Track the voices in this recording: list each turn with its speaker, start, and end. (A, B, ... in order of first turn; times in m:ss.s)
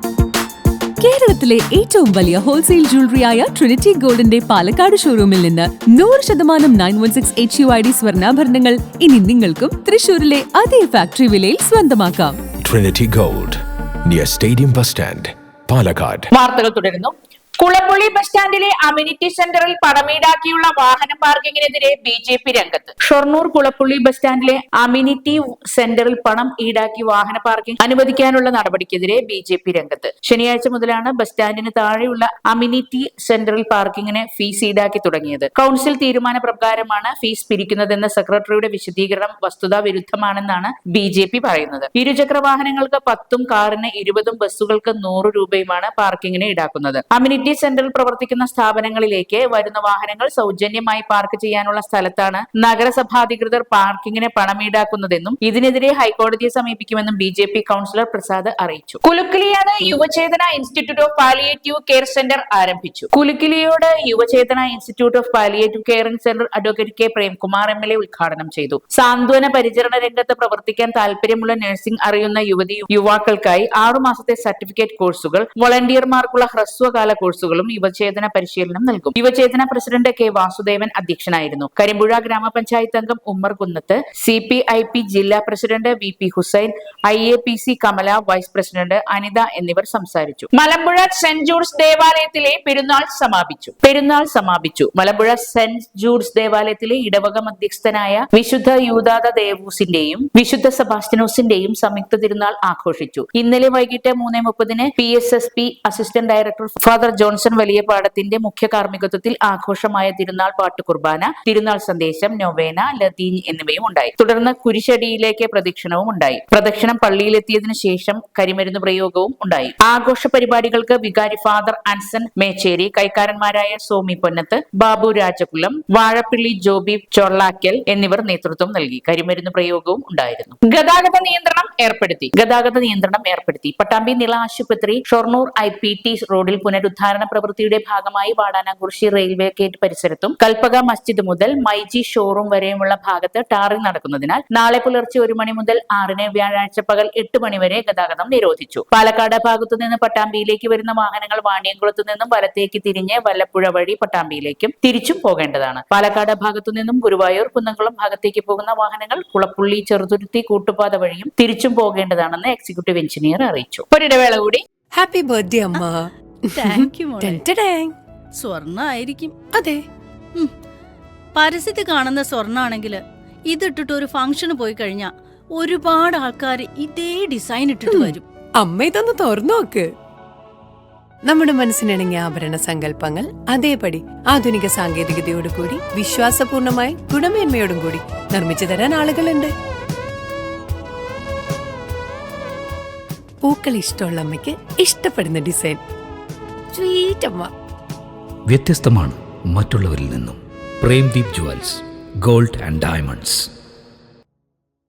0:01.0-0:12.4 A
0:12.6-0:16.3 B
0:16.3-2:44.6 C
2:44.9-2:47.9 D
2:46.6-2:47.4 E
2:48.3-2:49.3 E
2:49.5-2:49.8 D
2:51.3-2:58.2 E
2:57.9-2:59.9 D
3:01.2-3:09.5 D
3:13.4-3:15.8 D
3:16.7-3:17.5 D
3:18.5-3:23.5 F